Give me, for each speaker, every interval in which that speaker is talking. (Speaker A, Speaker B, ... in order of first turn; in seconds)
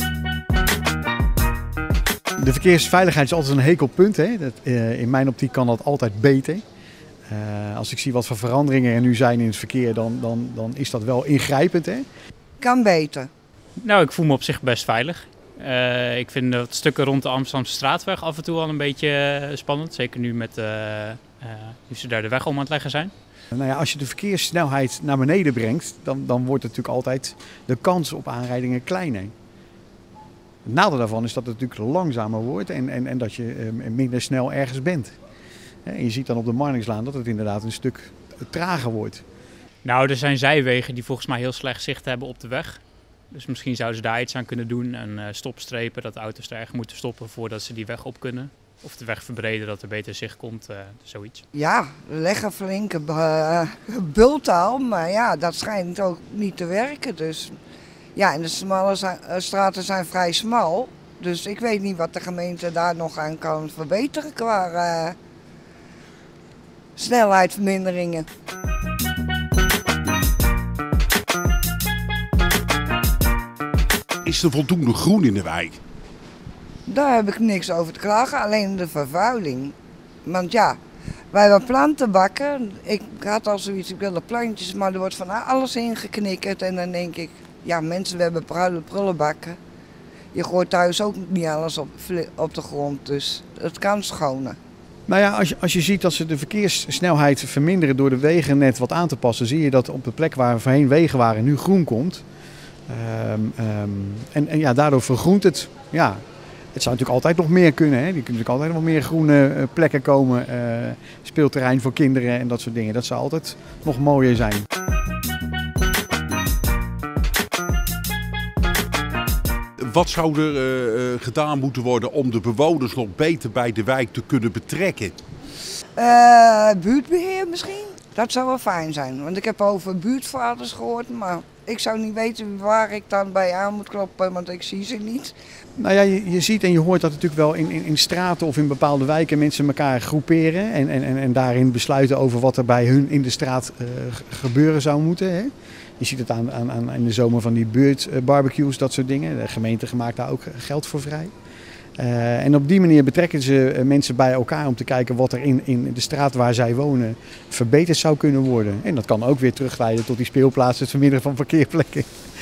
Speaker A: 2.4-6.6, 7.3-12.0, 23.5-29.3, 30.6-35.1, 35.9-39.2, 95.1-102.2, 102.9-106.2, 106.7-114.7, 135.8-151.3, 152.0-162.1
Speaker B: 12.6-13.3, 51.5-57.5, 58.1-65.2, 67.0-68.2, 76.9-80.8, 81.3-89.6, 90.3-94.6, 126.0-135.3
Speaker C: 13.8-23.1, 39.8-42.8, 43.3-51.4
Speaker D: 74.2-75.8, 119.8-125.2